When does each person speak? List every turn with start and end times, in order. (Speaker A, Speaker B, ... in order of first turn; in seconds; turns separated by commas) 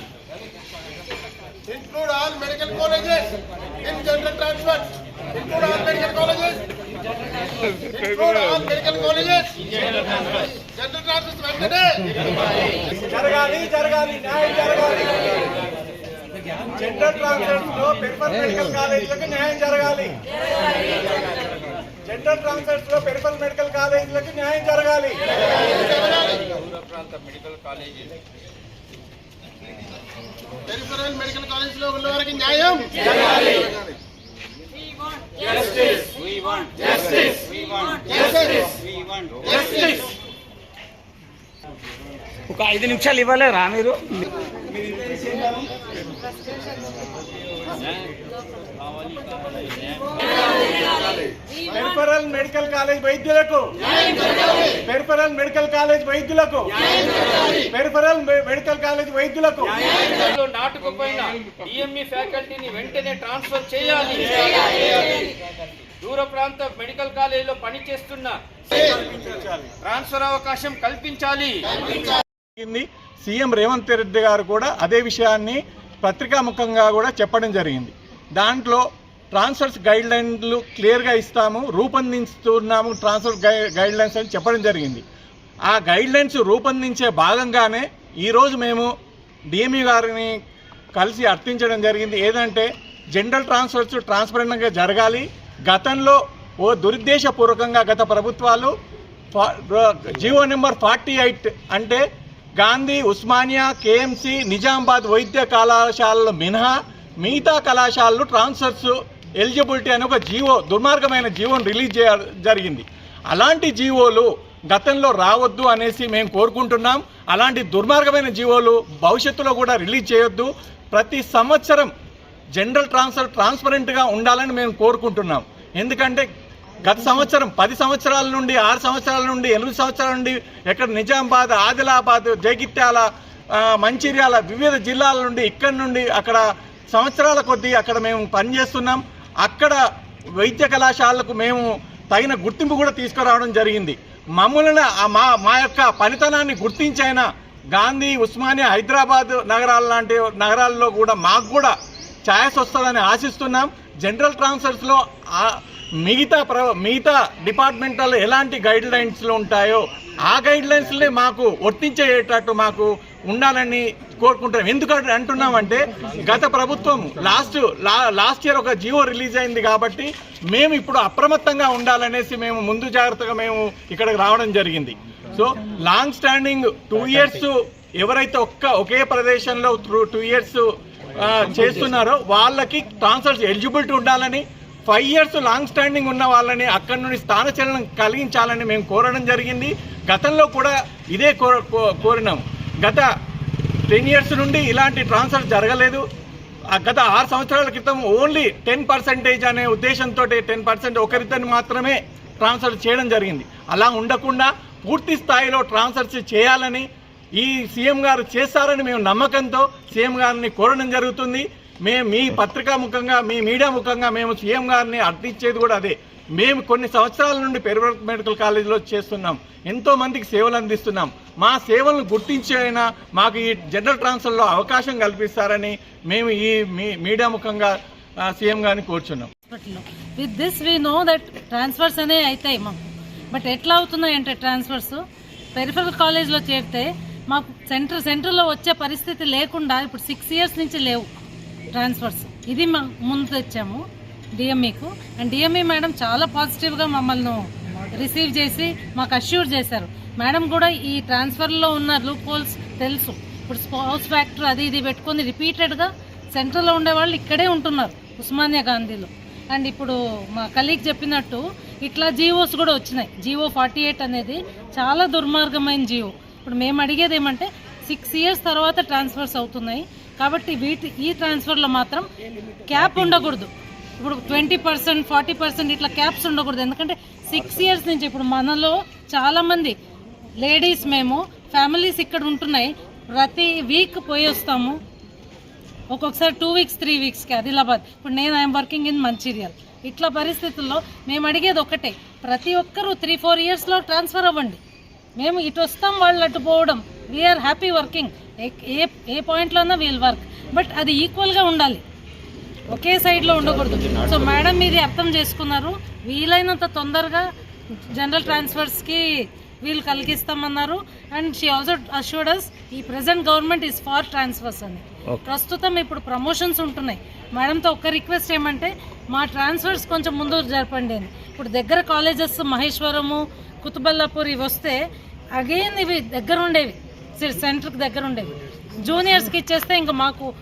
Speaker A: 1.6-6.6, Speaker A: 7.8-12.1, Speaker B: 13.0-15.5, Speaker B: 16.7-20.2, Speaker B: 22.1-25.2, Speaker A: 25.5-26.6, Speaker C: 26.8-28.1, Speaker A: 30.6-33.9, Speaker C: 36.2-37.4, Speaker A: 37.9-38.7, Speaker A: 39.4-40.0, Speaker D: 42.5-44.2, Speaker B: 51.7-53.6, Speaker B: 54.6-56.7, Speaker B: 57.5-59.8, Speaker C: 60.1-65.3, Speaker C: 66.0-72.1, Speaker B: 72.5-85.0, Speaker B: 85.7-88.9, Speaker B: 89.5-90.3, Speaker B: 91.0-98.7, Speaker B: 99.3-102.0, Speaker B: 102.6-121.9, Speaker B: 122.5-126.3, Speaker B: 126.8-136.4, Speaker B: 136.9-139.8, Speaker B: 140.4-151.7, Speaker B: 152.3-193.1, Speaker B: 193.9-196.0, Speaker B: 196.7-206.8, Speaker B: 207.4-227.7, Speaker B: 228.2-229.3, Speaker E: 229.5-232.8, Speaker E: 233.3-235.0, Speaker E: 235.5-241.1, Speaker E: 241.7-243.8, Speaker E: 244.4-272.1, Speaker E: 272.7-279.8, Speaker E: 280.4-284.8, Speaker E: 285.9-294.6, Speaker E: 295.2-301.8, Speaker E: 302.7-307.3, Speaker D: 303.8-304.2, Speaker E: 307.9-324.8, Speaker E: 325.3-330.3